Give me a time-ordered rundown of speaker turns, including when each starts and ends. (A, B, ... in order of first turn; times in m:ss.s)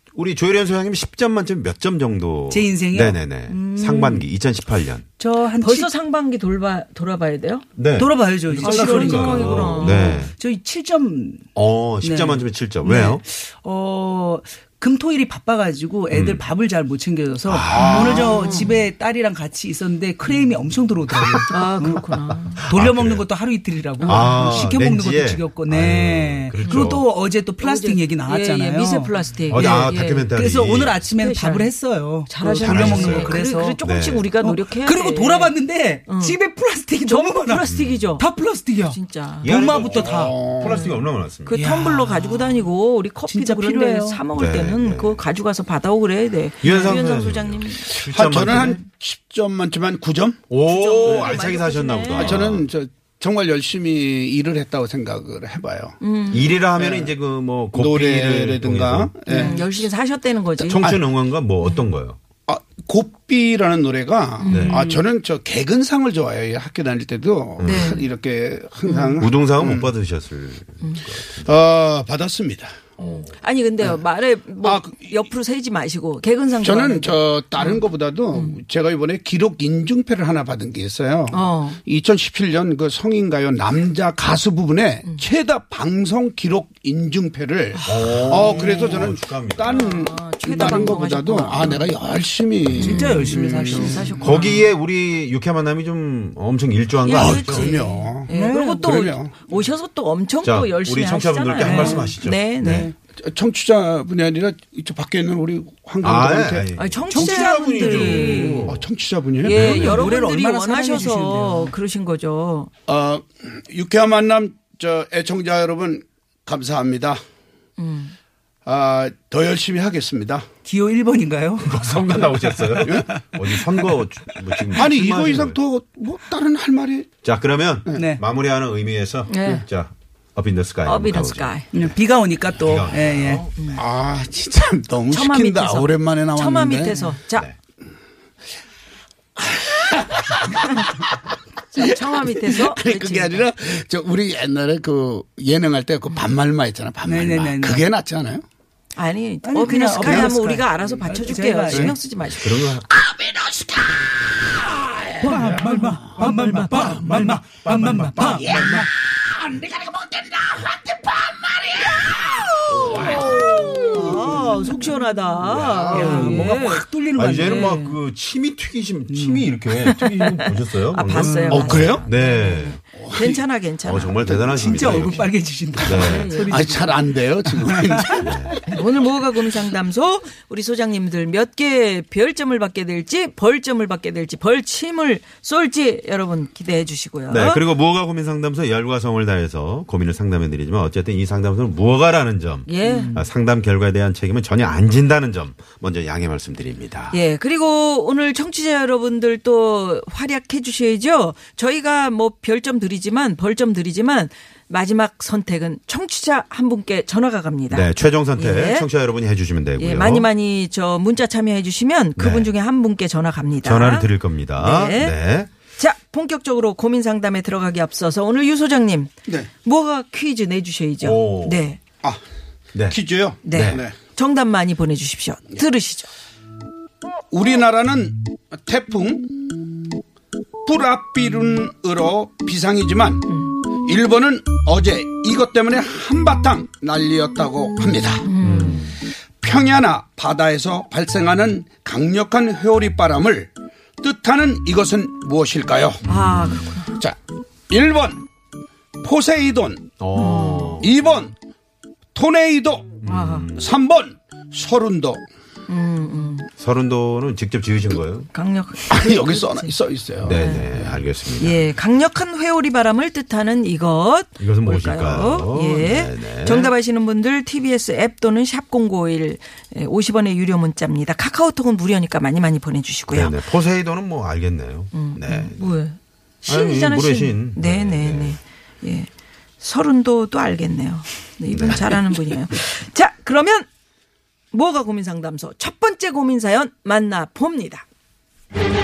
0:00.1-0:05.0 A
0:02.5-0:04.3 B
0:05.2-0:05.9 B
0:05.6-0:07.6 C
0:07.8-0:10.3 A
0:08.0-0:11.5 B
0:08.6-0:10.2 C
0:11.5-0:13.2 A
0:12.0-0:22.0 B
0:16.1-0:16.4 A
0:17.4-0:18.3 A
0:17.7-0:18.4 D
0:17.7-0:18.8 C
0:21.5-0:22.6 C
0:22.6-0:23.3 A
0:22.6-0:33.8 B
0:24.0-0:24.6 C
0:24.0-0:27.0 A
0:26.6-0:27.0 C
0:27.6-0:30.4 C
0:29.5-0:31.0 A
0:31.1-0:31.7 C
0:32.3-0:35.6 C
0:32.5-0:34.2 A
0:34.4-0:40.4 B
0:36.1-0:36.4 C
0:37.0-0:38.3 C
0:37.6-0:38.1 A
0:38.8-0:39.6 C
0:39.4-0:41.8 A
0:39.8-0:40.9 D
0:40.6-0:48.0 C
0:41.5-0:42.7 B
0:43.2-0:44.2 B
0:44.3-0:45.2 A
0:46.6-0:48.8 A
0:47.8-0:50.4 D
0:50.5-0:52.7 A
0:50.6-0:52.4 C
0:51.0-0:51.3 D
0:52.1-0:56.0 D
0:56.0-0:56.5 C
0:56.3-0:59.1 A
0:56.7-0:57.1 D
0:57.7-0:59.8 D
0:59.3-1:00.9 C
0:59.3-0:59.6 B
1:00.6-1:01.0 D
1:00.7-1:02.2 A
1:02.5-1:09.9 D
1:04.4-1:04.9 C
1:04.4-1:04.8 A
1:04.7-1:05.0 B
1:07.6-1:08.0 A
1:07.6-1:08.0 C
1:08.8-1:09.2 C
1:09.2-1:11.5 A
1:11.3-1:12.8 D
1:13.0-1:17.8 C
1:13.0-1:13.3 A
1:14.6-1:15.3 D
1:16.6-1:34.2 D
1:21.3-1:21.8 C
1:27.8-1:29.1 C
1:27.8-1:29.9 A
1:29.7-1:31.9 C
1:32.7-1:34.6 B
1:32.9-1:34.6 C
1:34.2-1:37.7 A
1:37.0-1:42.9 C
1:37.1-1:39.4 D
1:38.3-1:38.9 B
1:40.4-1:42.9 A
1:41.6-1:42.9 B
1:43.2-1:47.2 D
1:46.0-1:48.9 A
1:46.8-1:48.7 C
1:47.1-1:48.5 B
1:48.6-1:49.8 D
1:49.4-1:52.7 C
1:49.5-1:50.0 A
1:49.5-1:51.7 B
1:52.9-1:57.2 D
1:57.8-1:58.1 C
1:58.6-2:00.5 D
2:00.6-2:03.9 B
2:01.6-2:05.6 A
2:04.7-2:07.1 D
2:07.2-2:13.8 A
2:07.9-2:08.2 B
2:09.3-2:09.6 C
2:10.8-2:11.7 C
2:11.7-2:13.5 B
2:13.6-2:13.8 C
2:13.8-2:17.1 D
2:15.1-2:17.5 C
2:19.4-2:21.1 D
2:21.7-2:23.4 C
2:21.8-2:28.4 D
2:27.0-2:27.8 B
2:28.9-2:32.5 C
2:29.4-2:32.0 B
2:30.0-2:31.9 D
2:32.2-2:32.9 A
2:32.7-2:35.9 D
2:35.2-2:38.9 B
2:35.6-2:37.0 C
2:36.2-2:38.8 A
2:38.0-2:44.5 D
2:42.8-2:43.2 A
2:42.8-2:43.2 B
2:42.9-2:48.0 C
2:45.4-2:46.6 A
2:45.9-2:47.8 B
2:47.1-2:52.8 A
2:49.1-2:49.5 B
2:49.8-2:54.2 C
2:51.1-2:51.8 B
2:51.5-2:52.0 D
2:52.9-2:53.4 D
2:53.8-2:56.3 A
2:54.2-2:55.2 D
2:54.6-2:57.9 B
2:55.8-2:56.8 C
2:56.4-2:58.6 D
2:58.2-2:58.6 A
2:58.5-3:07.6 C
3:07.3-3:17.2 A
3:12.7-3:13.2 C
3:12.8-3:13.2 B
3:17.1-3:28.9 C
3:27.7-3:30.3 A
3:29.8-3:35.2 C
3:32.2-3:32.5 A
3:33.6-3:35.5 A
3:35.7-3:41.8 C
3:41.0-3:41.6 A
3:42.7-3:43.8 A
3:42.9-3:43.9 D
3:43.4-3:46.1 C
3:47.3-3:49.7 D
3:50.6-3:53.2 D
3:53.2-3:53.6 C
3:53.8-3:58.3 D
3:58.2-3:58.9 C
3:58.4-3:59.0 A
3:59.4-4:06.0 D
4:06.0-4:07.0 C
4:06.0-4:06.6 A
4:07.7-4:08.2 D
4:09.0-4:09.9 D
4:10.0-4:10.9 A
4:10.1-4:10.8 C
4:10.8-4:11.3 D
4:12.1-4:13.0 D
4:13.0-4:13.6 A
4:13.0-4:13.5 C
4:13.5-4:15.2 D
4:15.7-4:16.5 C
4:16.6-4:18.3 A
4:18.3-4:19.7 C
4:18.9-4:20.9 D
4:20.2-4:21.7 A
4:20.3-4:20.7 C
4:21.4-4:33.4 C
4:24.4-4:26.7 A
4:33.1-4:35.8 A
4:34.9-4:39.1 C
4:36.4-4:38.4 A
4:39.6-4:43.7 C
4:41.5-4:42.0 A
4:44.5-4:47.8 C